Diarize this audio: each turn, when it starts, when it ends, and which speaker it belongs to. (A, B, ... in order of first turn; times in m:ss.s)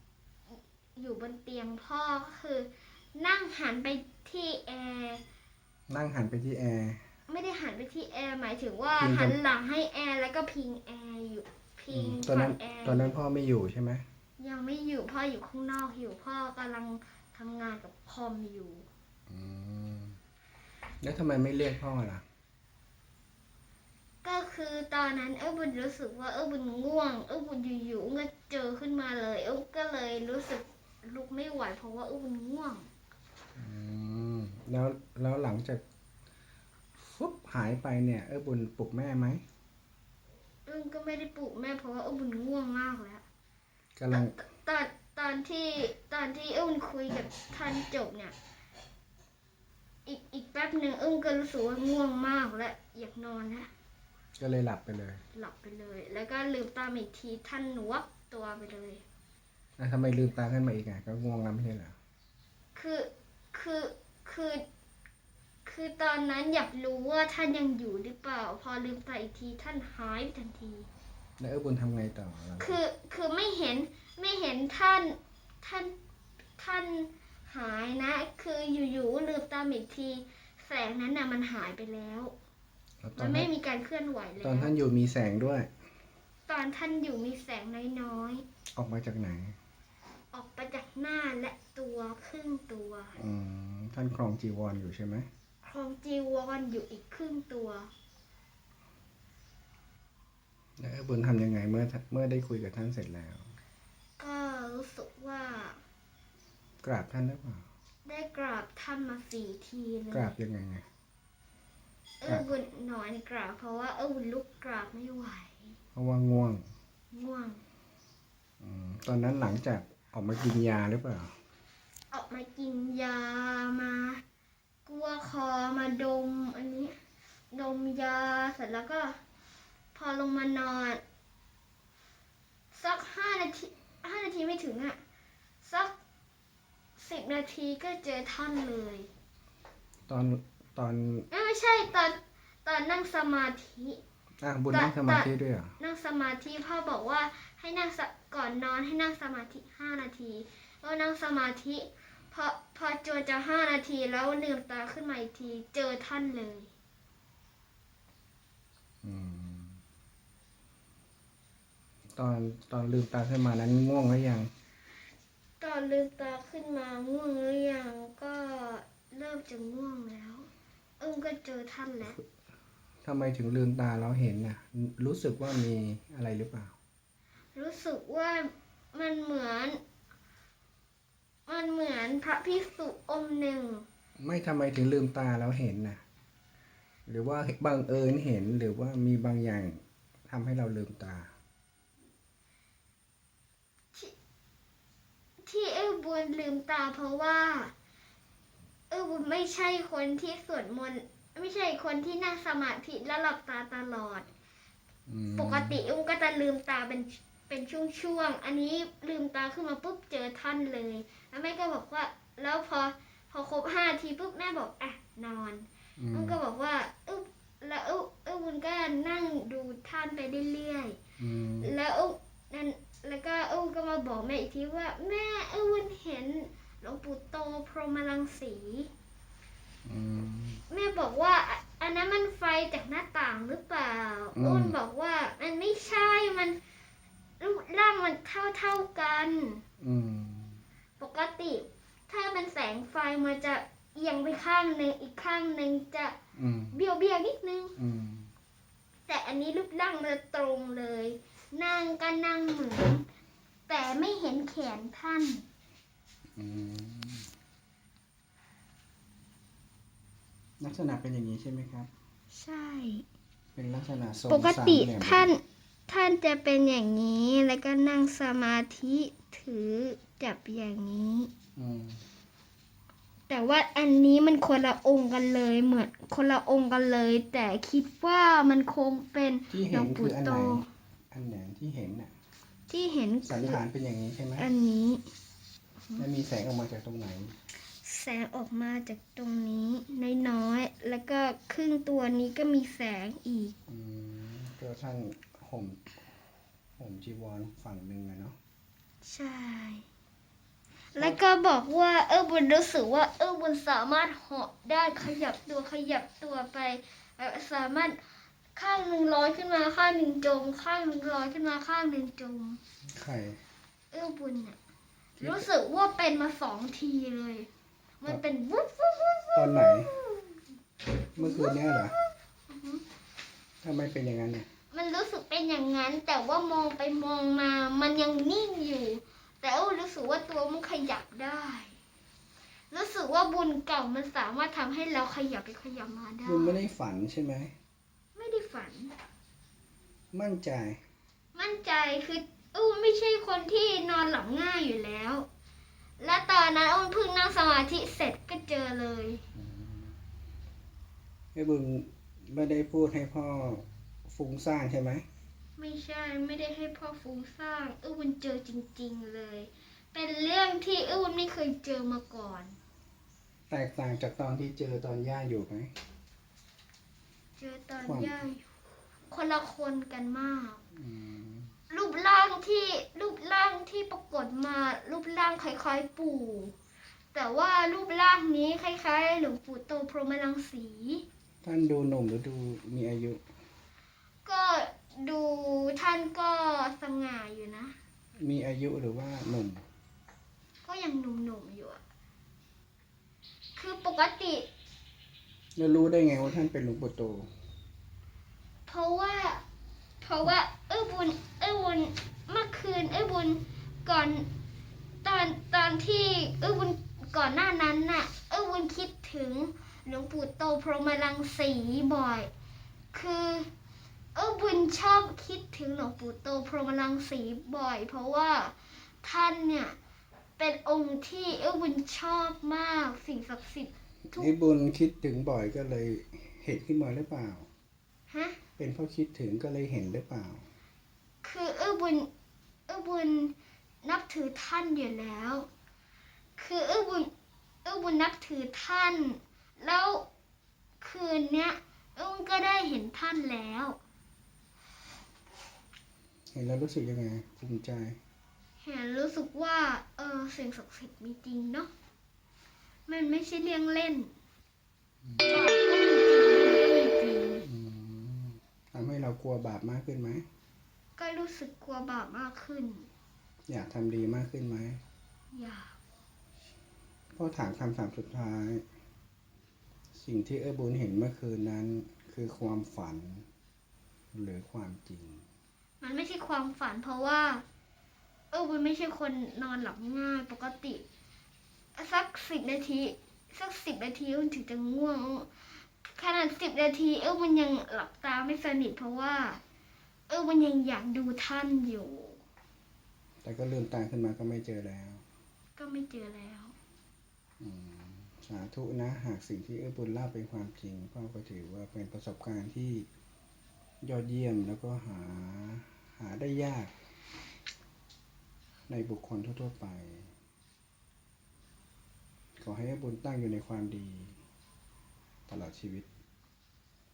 0:01.0-0:05.2 A
0:05.9-0:07.0 B
0:07.3-0:13.1 A
0:09.0-0:09.4 B
0:11.9-0:14.0 B
0:14.4-0:18.9 A
0:19.3-0:20.2 B
0:21.0-0:22.2 B
0:24.2-0:32.9 A
0:33.6-0:35.8 B
0:37.0-0:39.4 B
0:40.6-0:43.2 A
0:44.0-0:44.4 B
0:44.1-0:48.3 A
0:50.0-0:53.7 A
0:54.4-0:55.2 B
0:55.3-0:59.0 A
0:59.8-1:02.0 B
1:02.7-1:04.6 A
1:05.6-1:10.9 A
1:11.4-1:12.8 B
1:12.6-1:15.9 A
1:16.6-1:22.3 A
1:23.0-1:23.5 B
1:23.2-1:24.7 A
1:24.4-1:25.7 B
1:26.5-1:28.4 A
1:28.8-1:29.6 B
1:30.3-1:33.2 A
1:33.2-1:35.3 B
1:35.6-1:37.9 A
1:40.8-1:43.5 B
1:44.2-1:45.8 A
1:46.8-1:47.6 B
1:48.0-1:50.4 A
1:50.1-1:50.8 B
1:52.2-1:55.7 A
1:55.9-1:56.6 B
1:57.1-1:57.6 A
1:58.6-2:01.3 B
2:02.1-2:04.2 A
2:04.8-2:06.9 A
2:07.5-2:09.2 A
2:09.9-2:11.0 A
2:12.7-2:15.0 A
2:15.6-2:15.9 A
2:17.0-2:19.1 A
2:20.1-2:21.2 B
2:21.3-2:24.0 A
2:24.4-2:25.7 B
2:24.7-2:36.7 A
2:39.0-2:39.8 B
2:42.1-2:44.5 B
2:45.6-2:50.5 A
2:51.0-2:52.2 A
2:53.0-2:56.7 B
2:57.5-2:59.8 A
3:01.5-3:03.8 A
3:04.2-3:06.0 B
3:07.0-3:11.3 B
3:15.4-3:17.7 A
3:18.9-3:24.3 A
3:25.1-3:25.8 B
3:25.4-3:41.0 A
3:36.0-3:36.4 B
3:41.2-3:41.7 B
3:41.6-3:48.9 A
3:49.8-3:50.6 B
3:50.7-3:56.6 A
3:54.3-3:54.8 B
3:57.4-3:59.6 A
3:59.8-4:00.6 B
4:01.0-4:06.1 A
4:06.4-4:06.8 B
4:06.7-4:07.7 A
4:07.8-4:08.3 B
4:09.1-4:13.0 A
4:13.7-4:15.4 A
4:16.4-4:17.3 B
4:20.6-4:21.9 B
4:22.3-4:23.0 A
4:23.5-4:25.3 B
4:24.3-4:31.3 A
4:31.6-4:32.0 B
4:33.3-4:40.6 A
4:39.5-4:42.1 B
4:42.7-4:43.6 A
4:43.2-4:44.5 B
4:44.4-4:45.0 A
4:46.0-4:47.3 B
4:47.8-4:53.6 A
4:53.7-4:55.9 B
4:56.8-4:58.4 B
4:59.0-4:59.8 A
5:00.9-5:08.0 A
5:08.6-5:12.6 A
5:12.9-5:13.4 B
5:13.9-5:14.6 A
5:15.2-5:17.5 A
5:18.0-5:20.4 A
5:19.3-5:19.9 B
5:21.1-5:21.9 B
5:21.2-5:22.8 A
5:23.6-5:24.5 B
5:24.7-5:31.8 A
5:32.7-5:36.6 A
5:36.2-5:37.5 B
5:38.2-5:38.9 A
5:40.1-5:40.8 B
5:41.3-5:45.2 A
5:46.0-5:49.2 A
5:49.3-5:49.9 B
5:51.3-5:55.0 B
5:55.6-6:02.6 A
6:03.5-6:05.7 B
6:07.4-6:08.4 A
6:07.8-6:08.2 B
6:09.1-6:10.6 A
6:10.8-6:11.5 B
6:11.7-6:16.5 A
6:17.1-6:21.0 A
6:21.4-6:23.2 B
6:24.2-6:27.7 A
6:28.2-6:29.6 B
6:30.6-6:31.8 A
6:33.6-6:34.4 A
6:35.6-6:37.3 B
6:38.6-6:39.4 A
6:40.0-6:44.3 A
6:45.0-6:52.3 A
6:52.9-6:53.5 A
6:54.1-6:59.8 A
7:00.4-7:04.3 A
7:04.1-7:07.5 B
7:08.1-7:08.4 A
7:08.6-7:10.5 B
7:11.2-7:12.1 A
7:12.7-7:15.5 A
7:16.4-7:17.1 A
7:17.6-7:20.0 A
7:20.8-7:23.8 A
7:26.3-7:28.0 B
7:28.6-7:31.7 A
7:32.9-7:34.1 A
7:35.2-7:37.4 A
7:37.4-7:40.2 B
7:41.0-7:42.9 A
7:43.5-7:44.8 B
7:45.3-7:45.7 A
7:47.1-7:48.6 B
7:50.0-7:53.2 B
7:54.1-7:55.2 B
7:55.8-7:57.4 A
7:58.3-8:00.8 A
8:01.8-8:05.3 A
8:05.8-8:09.4 A
8:10.1-8:12.2 A
8:13.2-8:15.0 B
8:15.6-8:16.5 A
8:17.4-8:22.9 B
8:23.8-8:26.7 B
8:28.7-8:30.1 B
8:32.4-8:34.2 B
8:35.3-8:35.9 B